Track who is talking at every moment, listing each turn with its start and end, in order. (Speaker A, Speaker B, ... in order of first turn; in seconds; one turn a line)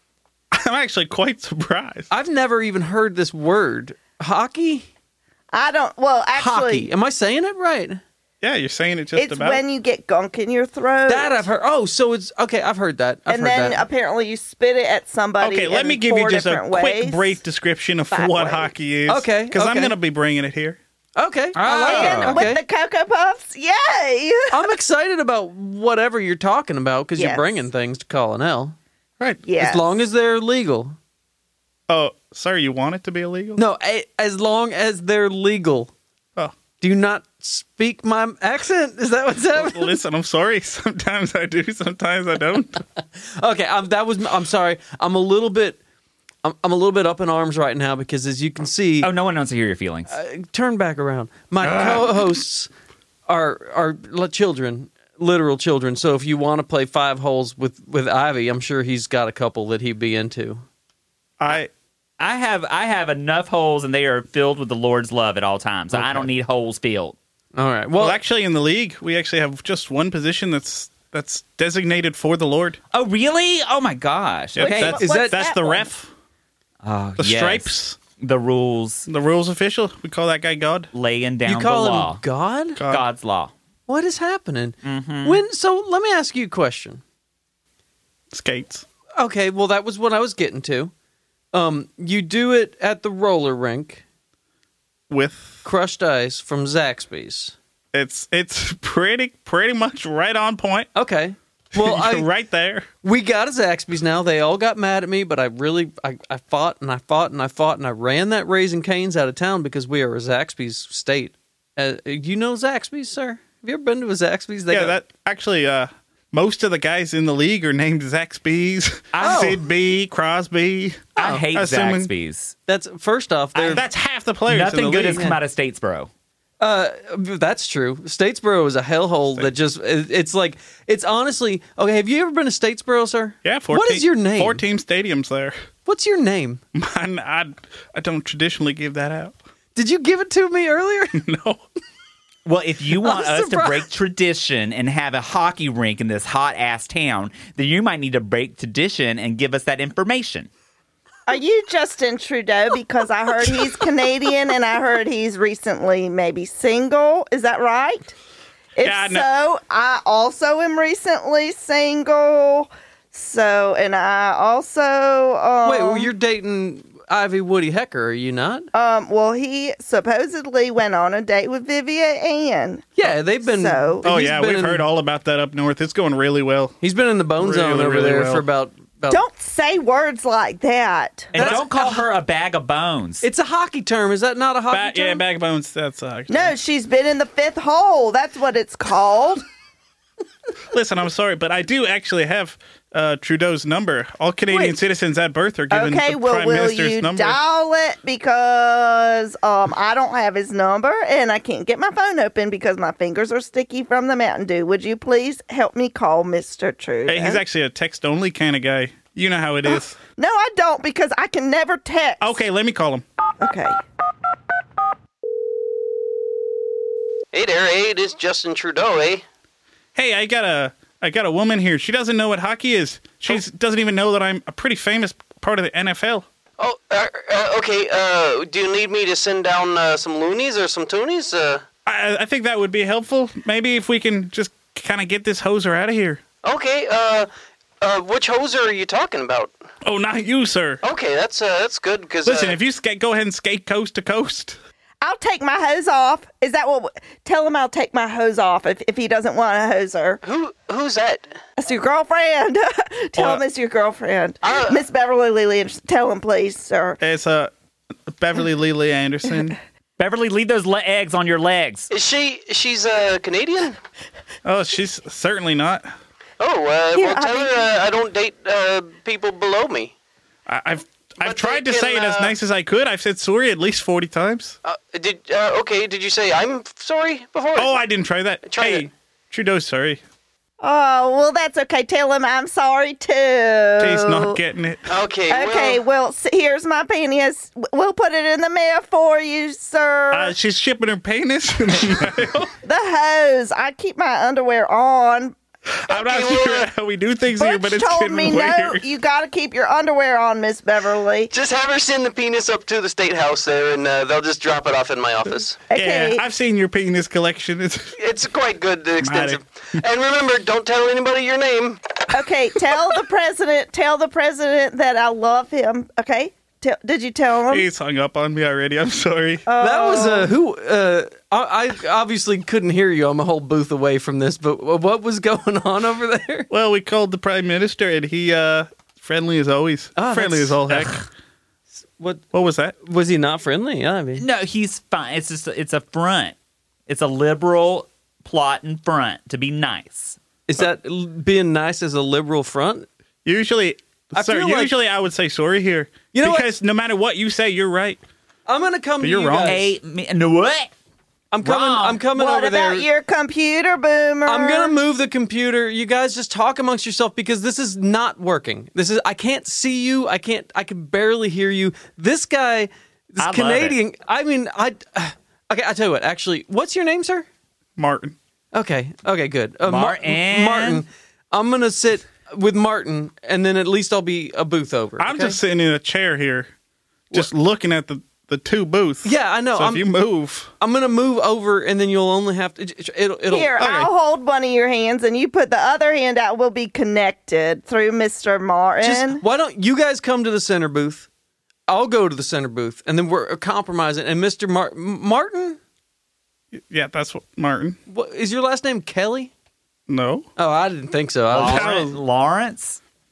Speaker A: 0.5-2.1
Speaker B: 2.1-4.9
Speaker C: 5.5-6.9
Speaker B: 6.3-8.0
Speaker A: 8.4-9.6
Speaker C: 9.2-11.4
Speaker B: 11.1-13.9
Speaker C: 13.3-17.4
Speaker A: 15.4-20.8
Speaker C: 18.1-18.7
Speaker B: 19.1-20.0
Speaker B: 21.2-22.6
Speaker D: 21.6-22.4
Speaker C: 21.9-24.7
Speaker B: 24.5-28.8
Speaker C: 27.2-27.6
Speaker C: 29.4-29.8
Speaker B: 29.6-31.0
Speaker A: 31.9-33.6
Speaker B: 33.6-35.9
Speaker B: 36.8-40.0
Speaker A: 39.5-42.8
Speaker B: 43.4-45.8
Speaker B: 46.4-49.1
Speaker D: 49.0-50.1
Speaker B: 50.1-52.7
Speaker A: 51.6-52.0
Speaker B: 53.3-60.6
Speaker A: 61.4-61.7
Speaker D: 62.2-67.2
Speaker B: 66.0-66.3
Speaker B: 67.5-68.2
Speaker A: 68.0-72.8
Speaker D: 72.9-75.0
Speaker A: 74.6-76.1
Speaker C: 74.6-75.9
Speaker B: 75.0-75.6
Speaker D: 76.8-79.0
Speaker A: 77.2-78.0
Speaker A: 79.1-80.9
Speaker D: 80.9-82.2
Speaker B: 81.5-82.8
Speaker A: 82.8-83.1
Speaker D: 82.9-83.5
Speaker B: 83.9-87.0
Speaker D: 84.8-85.4
Speaker A: 88.3-88.8
Speaker B: 89.2-90.9
Speaker B: 91.5-94.0
Speaker A: 95.1-95.6
Speaker B: 95.6-97.5
Speaker A: 97.9-100.9
Speaker B: 101.0-102.3
Speaker A: 101.8-102.9
Speaker B: 103.0-115.0
Speaker A: 114.7-122.1
Speaker D: 119.1-119.6
Speaker B: 119.2-119.6
Speaker B: 121.2-121.5
Speaker D: 121.2-122.5
Speaker B: 122.7-123.8
Speaker A: 123.6-125.3
Speaker D: 124.5-126.1
Speaker B: 126.6-134.6
Speaker A: 133.4-135.6
Speaker B: 135.9-136.6
Speaker A: 136.8-139.4
Speaker B: 139.8-141.2
Speaker A: 141.2-141.6
Speaker D: 142.5-150.5
Speaker B: 143.0-143.9
Speaker C: 151.3-158.1
Speaker C: 158.8-166.1
Speaker A: 158.8-159.3
Speaker B: 165.7-168.7
Speaker C: 168.7-172.9
Speaker B: 173.0-174.9
Speaker C: 173.4-174.1
Speaker A: 174.0-176.8
Speaker B: 176.8-179.2
Speaker A: 177.4-178.4
Speaker C: 179.1-181.4
Speaker D: 181.3-183.3
Speaker B: 181.3-182.1
Speaker B: 183.2-185.2
Speaker A: 184.7-186.5
Speaker C: 186.3-189.4
Speaker A: 190.7-197.4
Speaker C: 195.7-207.4
Speaker A: 207.1-210.0
Speaker C: 209.7-212.4
Speaker A: 212.2-213.1
Speaker C: 213.4-213.8
Speaker E: 217.3-219.2
Speaker A: 219.9-226.3
Speaker E: 226.6-231.6
Speaker A: 231.9-236.2
Speaker E: 236.4-237.3
Speaker E: 237.8-239.5
Speaker A: 239.8-240.8
Speaker E: 240.8-242.6
Speaker A: 242.2-244.6
Speaker C: 245.0-250.2
Speaker E: 250.2-251.3
Speaker C: 251.6-257.0
Speaker A: 253.2-253.4
Speaker E: 254.4-254.8
Speaker A: 257.0-257.5
Speaker A: 258.1-259.6
Speaker D: 260.0-261.9
Speaker E: 261.9-263.7
Speaker A: 264.4-265.9
Speaker E: 266.4-269.9
Speaker C: 266.9-267.6
Speaker A: 270.5-274.6
Speaker E: 271.2-272.4
Speaker E: 274.7-277.8
Speaker A: 277.6-280.0
Speaker E: 278.4-278.9
Speaker C: 280.6-284.4
Speaker A: 283.8-284.9
Speaker E: 284.9-285.8
Speaker C: 285.3-290.3
Speaker A: 290.1-292.5
Speaker C: 292.6-295.4
Speaker A: 295.8-298.8
Speaker E: 295.9-296.7
Speaker C: 297.4-301.3
Speaker E: 301.3-305.4
Speaker B: 305.3-305.6
Speaker C: 305.7-306.2
Speaker A: 305.8-307.9
Speaker E: 308.0-311.8
Speaker A: 309.0-309.4
Speaker C: 312.1-317.7
Speaker A: 317.5-319.4
Speaker C: 319.5-320.3
Speaker B: 319.6-326.5
Speaker A: 326.5-331.1
Speaker B: 330.0-330.9
Speaker A: 332.3-332.8
Speaker B: 332.8-334.2
Speaker D: 334.2-336.4
Speaker D: 336.9-340.2
Speaker B: 340.5-342.9
Speaker A: 343.2-348.0
Speaker B: 344.1-344.7
Speaker B: 346.1-346.5
Speaker B: 348.5-349.7
Speaker A: 349.0-349.7
Speaker D: 349.5-350.7
Speaker B: 351.3-352.9
Speaker D: 351.4-352.0
Speaker C: 352.1-354.7
Speaker B: 354.3-367.3
Speaker D: 363.2-363.8
Speaker A: 367.8-368.2
Speaker B: 368.5-375.4
Speaker D: 369.7-370.9
Speaker A: 375.0-376.5
Speaker A: 377.1-380.5
Speaker B: 379.0-379.9
Speaker B: 380.6-383.6
Speaker C: 383.3-389.2
Speaker A: 383.6-383.9
Speaker B: 388.8-391.1
Speaker B: 391.7-395.6
Speaker A: 396.6-397.8
Speaker B: 397.9-399.3
Speaker A: 399.9-400.3
Speaker B: 400.4-401.8
Speaker D: 401.3-402.8
Speaker A: 401.4-402.0